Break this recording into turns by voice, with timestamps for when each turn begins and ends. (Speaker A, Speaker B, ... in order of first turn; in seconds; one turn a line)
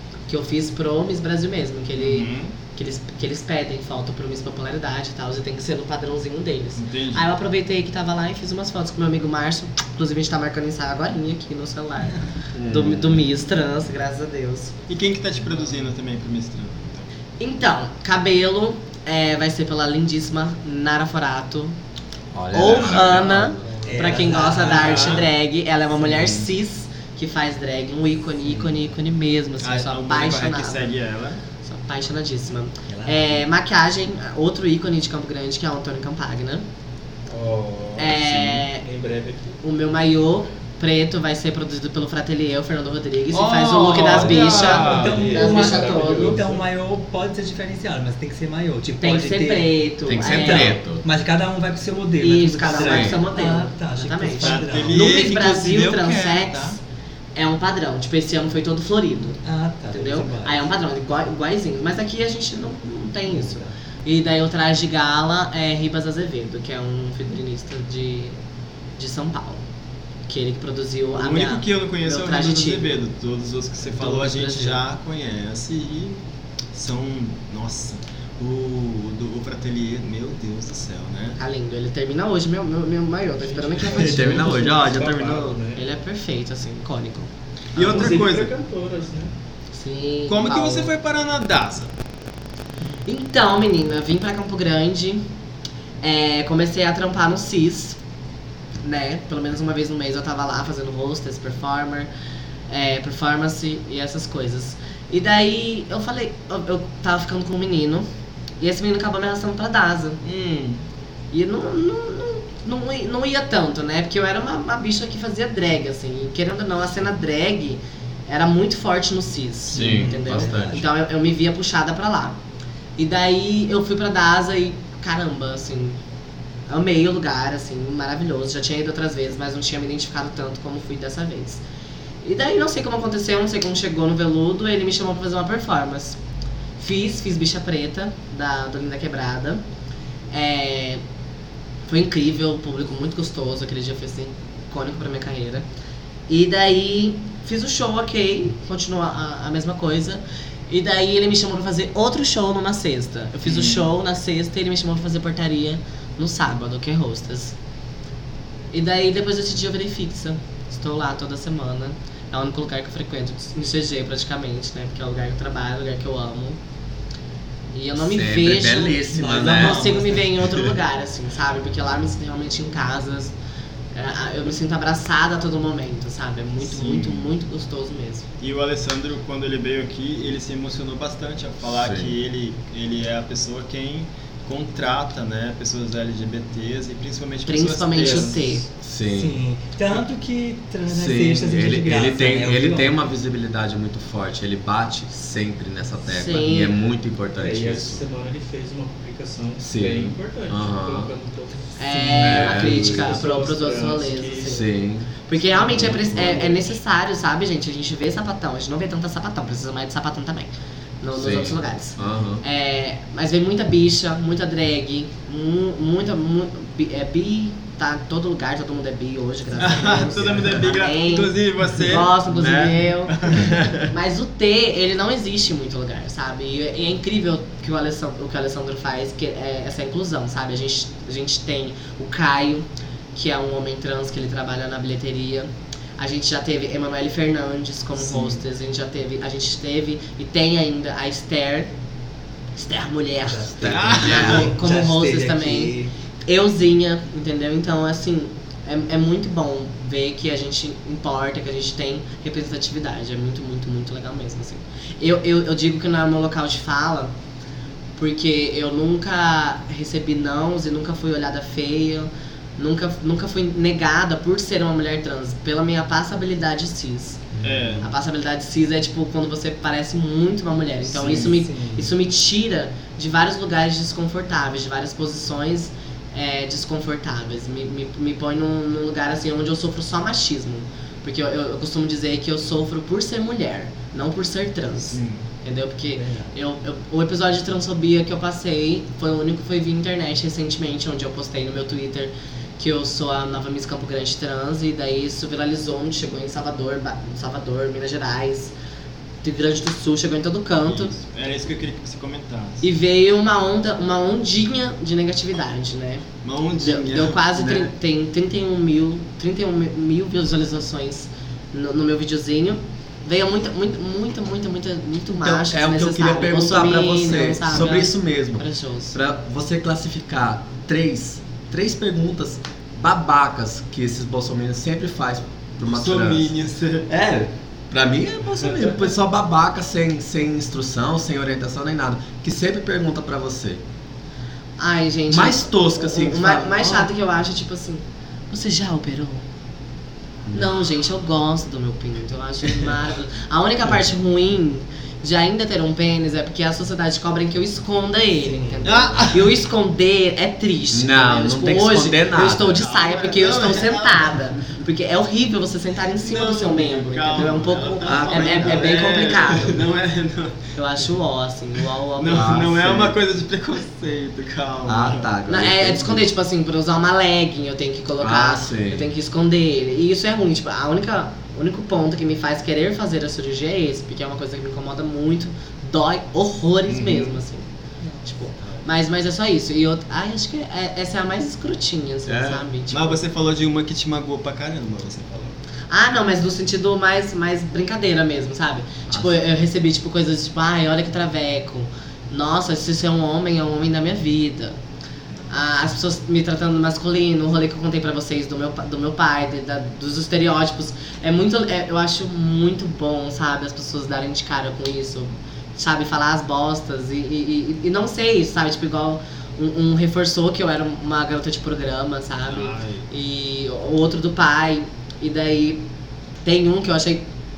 Speaker A: 0.3-14.7
Speaker B: 2.0-2.5
Speaker B: 6.8-7.3
Speaker C: 12.6-13.3
Speaker B: 14.9-17.1
Speaker A: 17.4-21.7
Speaker C: 22.3-24.0
Speaker A: 22.5-30.9
Speaker D: 23.8-25.3
Speaker B: 24.7-25.3
Speaker B: 29.6-31.4
Speaker A: 31.6-36.6
Speaker D: 32.9-33.4
Speaker E: 37.3-38.1
Speaker A: 38.0-38.9
Speaker E: 38.8-39.6
Speaker A: 39.6-46.4
Speaker B: 43.3-45.3
Speaker E: 44.1-46.6
Speaker D: 44.5-55.1
Speaker A: 49.0-50.8
Speaker C: 50.1-51.0
Speaker A: 52.2-56.8
Speaker C: 52.7-53.2
Speaker B: 54.4-56.8
Speaker A: 57.4-59.4
Speaker D: 59.4-60.6
Speaker A: 59.9-68.3
Speaker D: 63.3-63.7
Speaker A: 69.0-69.6
Speaker A: 70.3-72.9
Speaker B: 71.2-76.2
Speaker A: 73.9-74.8
Speaker B: 76.7-81.4
Speaker A: 81.4-84.6
Speaker E: 83.4-85.8
Speaker C: 83.9-85.6
Speaker A: 85.8-87.3
Speaker B: 87.8-88.5
Speaker E: 87.8-89.3
Speaker A: 87.8-88.1
Speaker A: 89.7-90.9
Speaker B: 90.3-91.9
Speaker A: 93.1-95.2
Speaker A: 96.0-98.0
Speaker A: 98.8-102.1
Speaker A: 102.7-108.1
Speaker A: 108.6-110.2
Speaker B: 110.2-110.8
Speaker A: 111.3-122.4
Speaker C: 119.7-120.8
Speaker D: 119.7-120.8
Speaker A: 123.0-126.0
Speaker A: 126.7-131.6
Speaker A: 132.2-136.2
Speaker A: 136.8-139.6
Speaker A: 140.3-141.0
Speaker A: 141.9-145.7
Speaker A: 146.3-157.5
Speaker B: 153.4-153.9
Speaker A: 158.7-166.6
Speaker A: 167.7-173.3
Speaker C: 168.0-170.7
Speaker D: 169.2-170.2
Speaker A: 173.9-178.3
Speaker B: 176.7-177.3
Speaker B: 178.4-188.5
Speaker C: 181.8-182.2
Speaker A: 187.5-188.7
Speaker E: 188.0-188.3
Speaker C: 188.8-189.4
Speaker D: 189.1-192.9
Speaker C: 190.9-198.0
Speaker A: 196.1-196.8
Speaker E: 197.4-201.7
Speaker C: 199.6-201.1
Speaker A: 201.8-204.7
Speaker D: 201.9-202.5
Speaker C: 202.2-203.2
Speaker E: 202.5-204.6
Speaker C: 204.5-206.6
Speaker A: 205.3-210.5
Speaker E: 205.6-206.2
Speaker A: 211.0-241.7
Speaker C: 211.1-212.4
Speaker B: 219.6-223.5
Speaker C: 222.3-222.7
Speaker C: 223.3-223.9
Speaker A: 242.6-245.8
Speaker D: 243.2-245.9
Speaker C: 243.6-244.5
Speaker B: 243.7-244.4
Speaker A: 246.3-257.1
Speaker A: 258.0-267.3
Speaker B: 267.4-267.9
Speaker A: 267.8-298.5
Speaker D: 270.9-271.9
Speaker B: 284.9-285.2
Speaker D: 285.9-286.3
Speaker A: 299.2-300.9
Speaker B: 300.6-302.6
Speaker A: 302.6-306.1
Speaker B: 306.2-307.2
Speaker A: 306.6-319.0
Speaker C: 307.4-307.7
Speaker C: 315.2-326.3
Speaker B: 325.6-326.9
Speaker C: 326.9-333.6
Speaker A: 334.6-339.2
Speaker C: 335.1-336.9
Speaker C: 340.3-340.5
Speaker A: 340.3-359.6
Speaker D: 348.3-348.8
Speaker B: 348.6-349.2
Speaker C: 350.7-352.7
Speaker B: 352.6-354.2
Speaker B: 356.0-360.4
Speaker C: 357.8-358.9
Speaker A: 360.6-362.6
Speaker B: 362.0-365.1
Speaker C: 362.1-363.0
Speaker C: 364.7-366.1
Speaker A: 365.3-377.4
Speaker C: 368.0-368.9
Speaker B: 376.7-377.2
Speaker A: 378.1-383.0
Speaker C: 382.1-382.4
Speaker B: 382.7-385.4
Speaker A: 385.7-394.6
Speaker C: 388.9-389.2
Speaker A: 395.3-415.6
Speaker B: 412.3-412.9
Speaker A: 416.2-417.1